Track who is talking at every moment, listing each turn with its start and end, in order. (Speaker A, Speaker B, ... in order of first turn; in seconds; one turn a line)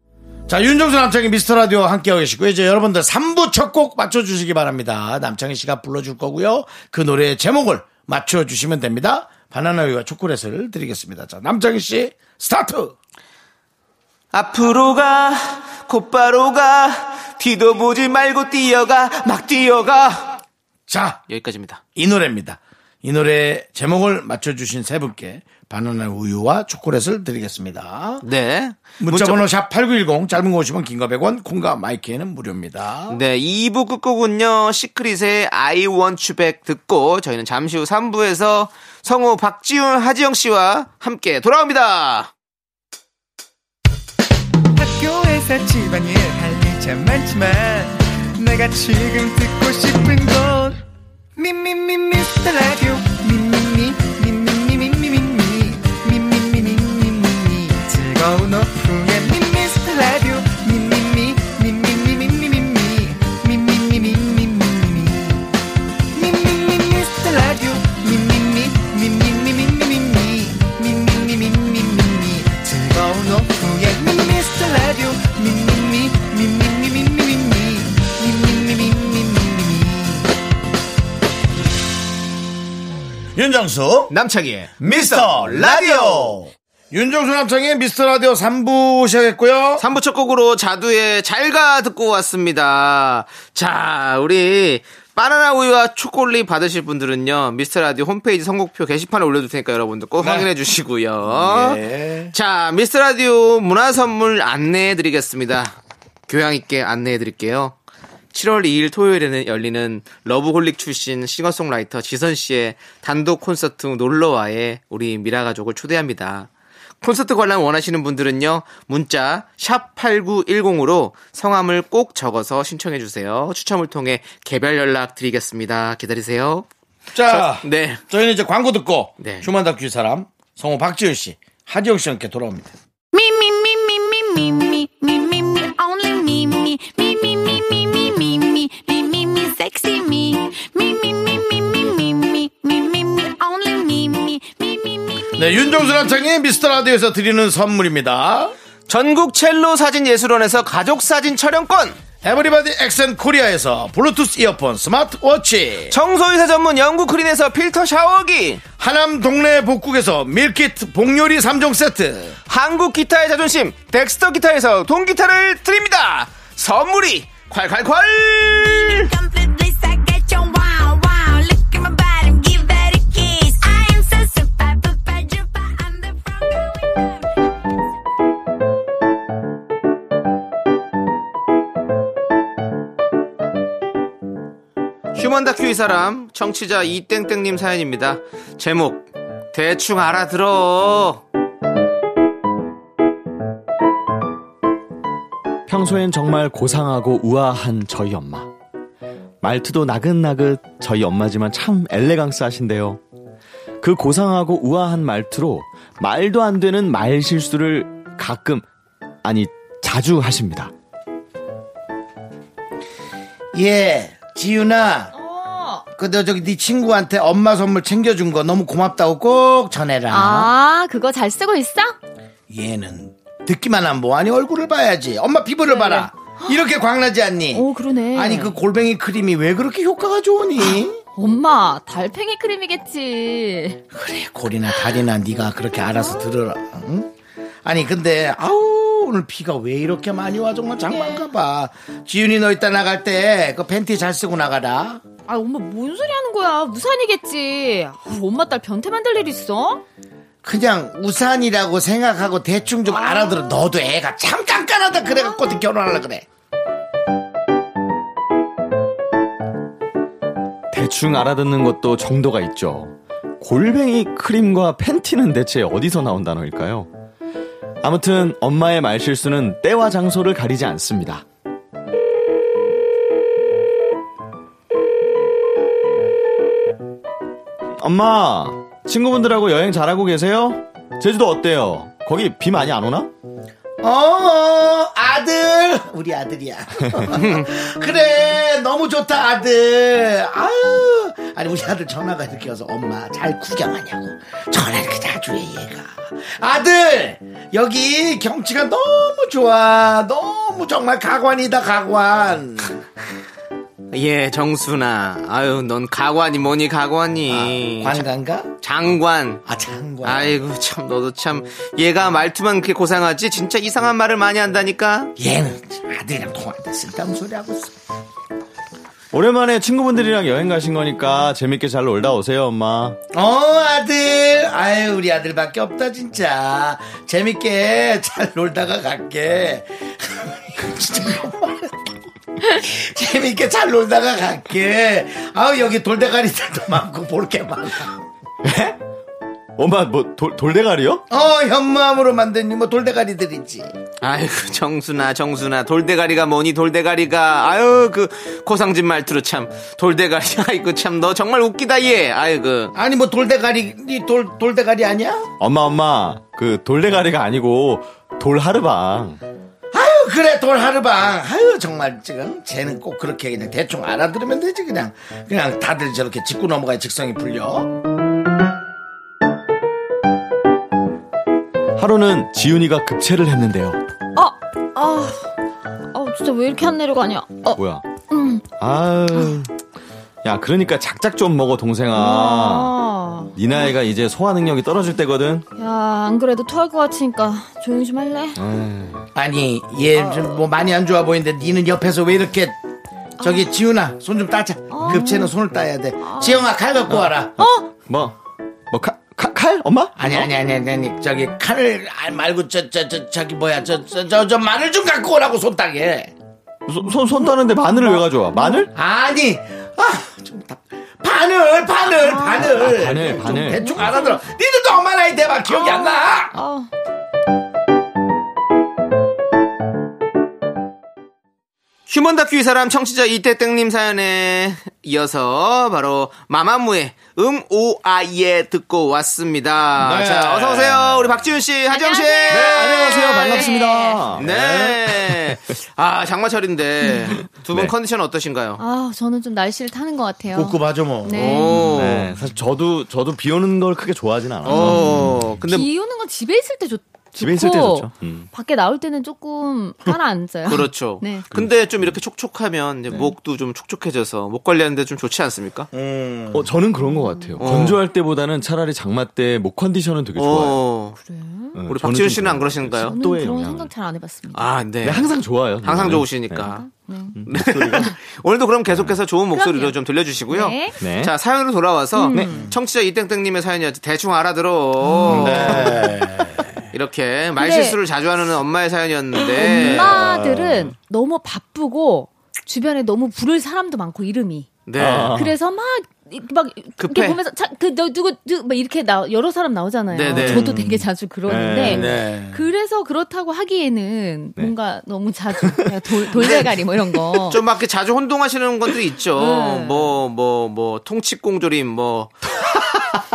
Speaker A: 0.5-12.9
Speaker B: 14.3-20.4
Speaker A: 20.9-21.2
Speaker B: 21.3-21.8
Speaker A: 21.9-28.2
Speaker B: 28.2-29.4
Speaker A: 29.0-33.2
Speaker B: 33.1-42.3
Speaker C: 44.8-50.8
Speaker C: 51.4-65.5
Speaker C: 66.1-80.3
Speaker A: 83.3-84.1
Speaker B: 84.1-86.4
Speaker A: 84.8-89.9
Speaker B: 89.8-105.8
Speaker A: 100.2-100.5
Speaker A: 101.3-102.3
Speaker B: 106.3-107.8
Speaker B: 108.3-116.5
Speaker B: 117.0-126.7
Speaker A: 127.1-132.7
Speaker B: 127.2-128.0
Speaker B: 129.2-129.5
Speaker D: 133.1-145.3
Speaker A: 145.3-148.5
Speaker B: 148.9-152.0
Speaker A: 152.2-156.0
Speaker B: 155.9-158.6
Speaker A: 158.8-162.4
Speaker B: 162.5-169.1
Speaker D: 168.5-177.4
Speaker B: 185.1-191.2
Speaker E: 195.7-198.5
Speaker E: 199.4-203.0
Speaker E: 203.8-208.7
Speaker E: 209.2-210.7
Speaker A: 213.5-215.1
Speaker F: 215.1-215.8
Speaker A: 215.9-220.5
Speaker F: 220.1-222.0
Speaker A: 222.5-231.0
Speaker F: 225.7-226.6
Speaker F: 227.5-228.6
Speaker F: 230.6-233.8
Speaker A: 233.9-237.1
Speaker A: 237.6-245.0
Speaker F: 240.9-241.2
Speaker F: 245.3-249.8
Speaker A: 250.4-256.3
Speaker F: 252.9-253.6
Speaker F: 255.2-255.5
Speaker E: 260.7-266.9
Speaker E: 267.8-271.2
Speaker E: 277.8-283.1
Speaker A: 283.8-302.8
Speaker B: 287.1-287.5
Speaker B: 303.9-308.1
Speaker A: 307.3-308.5
Speaker B: 308.6-309.4
Speaker A: 309.4-310.4
Speaker B: 310.0-315.1
Speaker A: 315.2-317.7
Speaker E: 319.1-323.0
Speaker A: 323.1-331.9
Speaker A: 332.4-338.0
Speaker E: 338.4-338.8
Speaker E: 339.6-341.0
Speaker A: 341.1-343.7
Speaker B: 344.0-352.7
Speaker A: 352.8-355.3
Speaker E: 355.4-359.2
Speaker A: 359.7-367.7
Speaker E: 371.8-373.8
Speaker F: 374.1-375.3
Speaker F: 375.9-378.5
Speaker E: 377.6-377.9
Speaker E: 378.6-379.5
Speaker E: 380.2-382.8
Speaker F: 381.9-383.7
Speaker E: 383.4-385.5
Speaker F: 385.6-388.4
Speaker E: 388.4-389.1
Speaker A: 389.1-392.6
Speaker A: 393.2-397.4
Speaker F: 393.2-393.5
Speaker F: 394.7-395.3
Speaker F: 396.0-396.4
Speaker F: 397.4-397.7
Speaker E: 397.9-398.2
Speaker E: 398.7-400.3
Speaker A: 400.0-406.1
Speaker E: 406.7-408.7
Speaker F: 406.8-408.7
Speaker A: 408.7-416.4
Speaker F: 411.9-414.2
Speaker E: 412.5-413.7
Speaker F: 415.5-416.7
Speaker B: 421.9-432.6
Speaker A: 429.8-431.1
Speaker F: 431.7-434.1
Speaker E: 432.3-434.3
Speaker B: 434.2-438.6
Speaker A: 434.2-434.8
Speaker F: 436.9-437.1
Speaker E: 437.4-437.7
Speaker F: 438.6-441.8
Speaker A: 440.3-441.4
Speaker B: 441.1-442.1
Speaker E: 441.7-445.4
Speaker B: 444.4-445.7
Speaker F: 444.5-451.3
Speaker E: 447.2-448.3
Speaker B: 450.5-455.7
Speaker E: 451.3-451.9
Speaker A: 455.7-456.5
Speaker E: 456.3-460.7
Speaker F: 456.8-457.6
Speaker B: 457.4-457.8
Speaker B: 460.2-461.0
Speaker F: 461.0-461.6
Speaker E: 461.6-463.7
Speaker B: 461.7-463.0
Speaker F: 462.8-464.5
Speaker B: 464.3-466.7
Speaker E: 464.8-466.5
Speaker F: 466.4-467.3
Speaker E: 467.1-467.9
Speaker B: 467.3-475.9
Speaker E: 468.7-469.0
Speaker F: 469.3-470.8
Speaker E: 470.8-471.1
Speaker F: 471.9-472.5
Speaker F: 474.8-475.4
Speaker A: 475.1-476.5
Speaker E: 475.2-475.9
Speaker B: 476.7-480.0
Speaker F: 477.4-477.8
Speaker F: 479.3-497.4
Speaker E: 479.6-480.7
Speaker B: 484.7-485.2
Speaker E: 484.8-485.4
Speaker B: 486.8-487.2
Speaker B: 489.9-490.5
Speaker E: 490.2-492.0
Speaker A: 491.7-492.4
Speaker E: 495.4-495.7
Speaker B: 496.2-496.4
Speaker B: 497.2-502.2
Speaker F: 499.1-499.9
Speaker E: 502.6-503.0